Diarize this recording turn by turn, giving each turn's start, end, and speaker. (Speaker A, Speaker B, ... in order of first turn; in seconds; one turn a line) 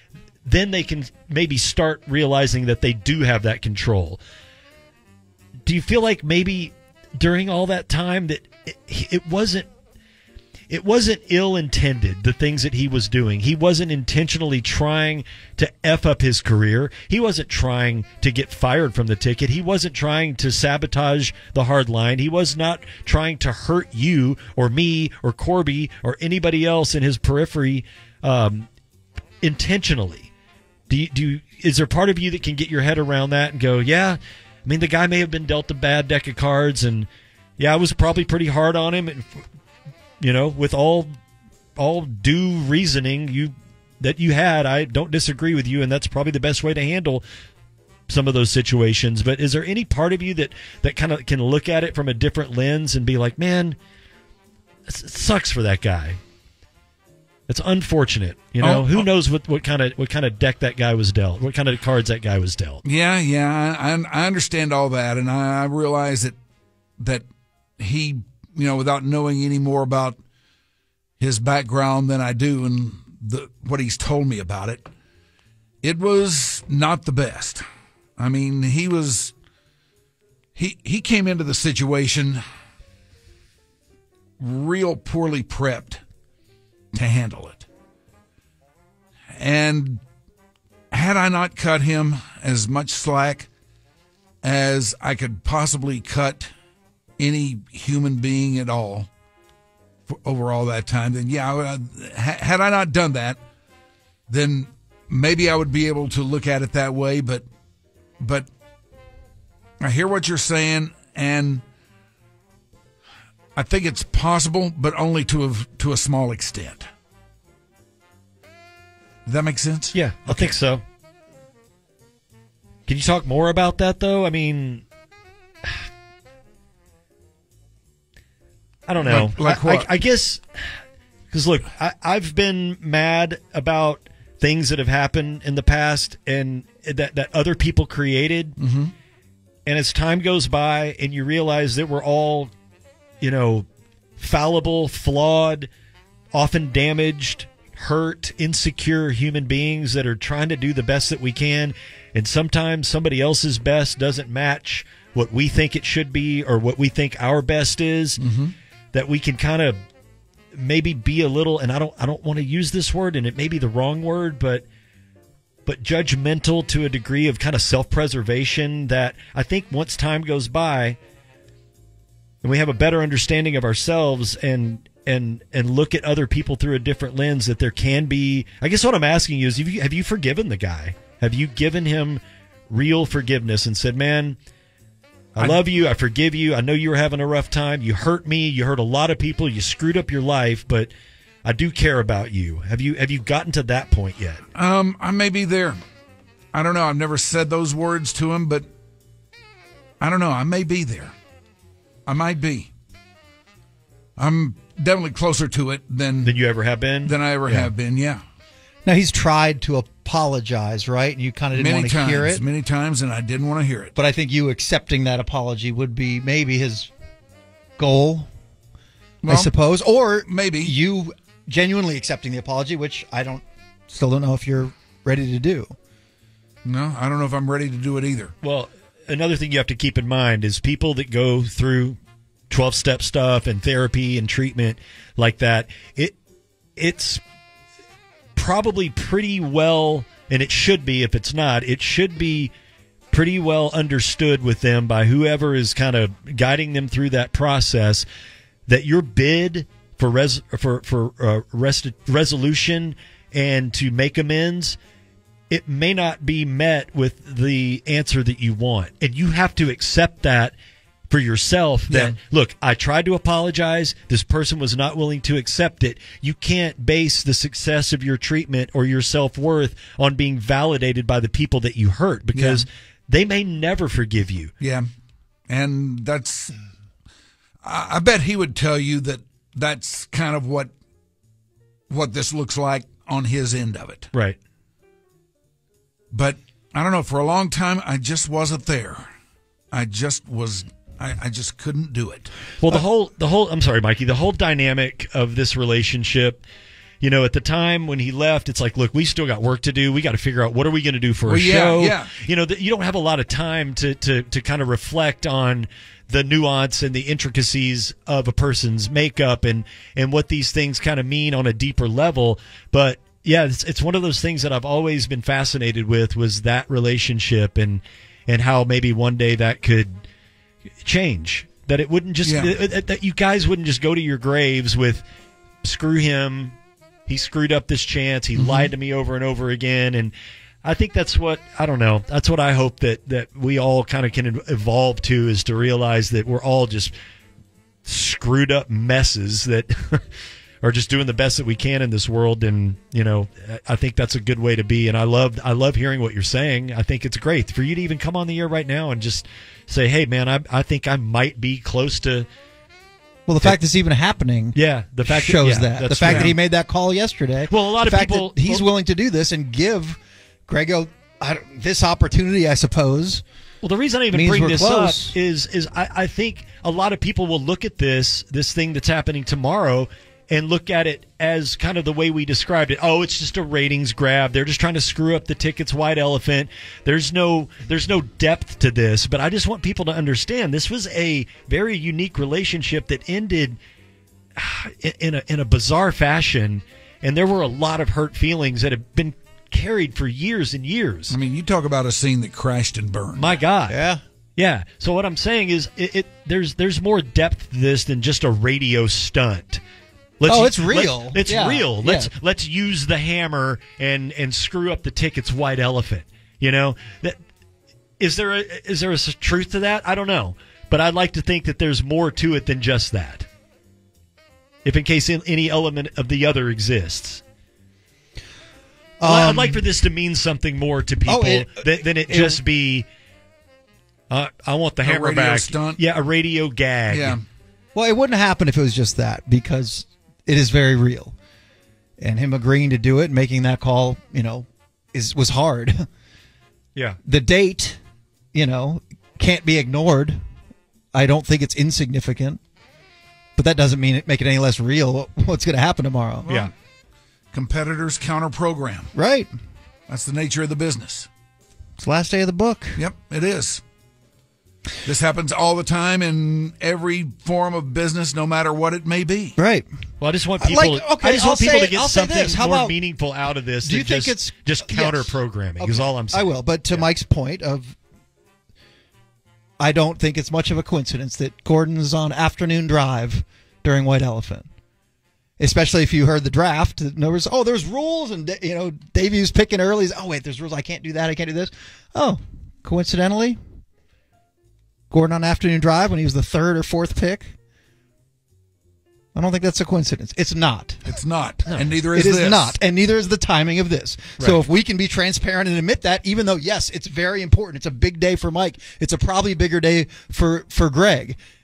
Speaker A: 0.5-4.2
Speaker A: 5.7-9.7
Speaker A: 10.7-28.7
Speaker A: 29.4-30.3
Speaker A: 30.9-39.5
Speaker A: 40.2-41.1
Speaker A: 41.8-47.2
Speaker A: 48.1-53.8
Speaker A: 54.9-56.2
Speaker A: 57.5-62.8
Speaker B: 58.6-59.1
Speaker B: 62.9-66.4
Speaker B: 67.0-67.2
Speaker B: 67.8-70.2
Speaker B: 71.2-74.9
Speaker B: 75.8-77.6
Speaker B: 78.2-79.3
Speaker B: 80.5-82.4
Speaker B: 84.4-86.0
Speaker B: 87.0-87.7
Speaker B: 89.4-90.0
Speaker B: 90.9-93.5
Speaker B: 94.4-96.5
Speaker B: 97.2-99.1
Speaker B: 100.1-103.4
Speaker B: 104.3-107.5
Speaker B: 108.2-108.5
Speaker B: 109.8-111.6
Speaker B: 113.6-116.9
Speaker B: 119.3-120.6
Speaker A: 119.9-120.8
Speaker A: 122.9-124.8
Speaker A: 128.9-130.8
Speaker B: 129.0-129.9
Speaker A: 131.3-138.6
Speaker B: 138.6-138.9
Speaker A: 139.7-142.5
Speaker A: 143.2-143.7
Speaker A: 144.2-145.7
Speaker A: 146.3-158.2
Speaker B: 158.2-158.5
Speaker A: 158.9-159.8
Speaker A: 160.5-164.7
Speaker A: 165.7-171.0
Speaker A: 172.4-184.4
Speaker A: 185.4-190.9
Speaker A: 191.4-194.4
Speaker B: 194.6-195.8
Speaker B: 196.5-198.7
Speaker B: 200.0-201.1
Speaker B: 202.1-202.7
Speaker B: 204.2-206.4
Speaker A: 206.2-207.7
Speaker B: 207.1-208.2
Speaker C: 208.9-212.4
Speaker B: 211.5-213.9
Speaker C: 213.9-216.9
Speaker C: 217.8-218.3
Speaker B: 219.2-219.5
Speaker C: 219.3-225.7
Speaker B: 220.3-220.7
Speaker B: 226.7-228.3
Speaker A: 228.4-232.0
Speaker A: 232.5-236.2
Speaker A: 236.8-237.2
Speaker A: 238.4-242.5
Speaker A: 243.1-248.1
Speaker A: 248.7-254.8
Speaker A: 255.5-260.5
Speaker A: 261.1-274.5
Speaker B: 272.4-272.6
Speaker B: 274.6-274.9
Speaker B: 275.5-276.5
Speaker B: 277.6-280.7
Speaker B: 281.9-284.1
Speaker B: 286.1-289.1
Speaker B: 289.7-292.3
Speaker A: 292.6-296.4
Speaker A: 297.0-320.0
Speaker B: 301.3-302.1
Speaker A: 320.8-325.0
Speaker B: 322.2-322.5
Speaker A: 325.6-326.6
Speaker A: 327.1-336.9
Speaker B: 328.4-328.7
Speaker A: 337.9-340.1
Speaker A: 340.6-352.3
Speaker C: 353.3-363.2
Speaker A: 354.6-356.4
Speaker A: 357.5-358.7
Speaker A: 363.6-383.6
Speaker C: 364.1-365.2
Speaker A: 384.4-391.1
Speaker B: 391.1-393.4
Speaker A: 393.2-393.8
Speaker C: 393.7-394.0
Speaker A: 394.4-399.6
Speaker A: 400.2-407.2
Speaker C: 400.3-402.1
Speaker A: 408.0-413.3
Speaker A: 414.6-417.2
Speaker C: 419.0-419.6
Speaker A: 419.0-422.9
Speaker C: 421.1-422.4
Speaker A: 424.1-427.2
Speaker B: 424.8-425.8
Speaker B: 426.9-427.2
Speaker C: 427.8-431.1
Speaker C: 432.0-435.9
Speaker C: 437.1-437.8
Speaker C: 438.3-440.2
Speaker C: 440.9-442.4
Speaker C: 443.4-446.3
Speaker B: 446.2-446.5
Speaker B: 447.3-448.9
Speaker C: 448.9-449.3
Speaker B: 449.9-451.1
Speaker C: 451.8-452.8
Speaker B: 452.8-453.6
Speaker B: 454.9-459.4
Speaker C: 459.4-459.7
Speaker A: 460.0-466.9
Speaker C: 460.4-462.8
Speaker C: 463.6-467.8
Speaker C: 469.6-474.5
Speaker C: 475.4-483.4
Speaker C: 484.9-487.3
Speaker C: 489.1-490.8
Speaker B: 490.9-492.6
Speaker C: 491.9-501.2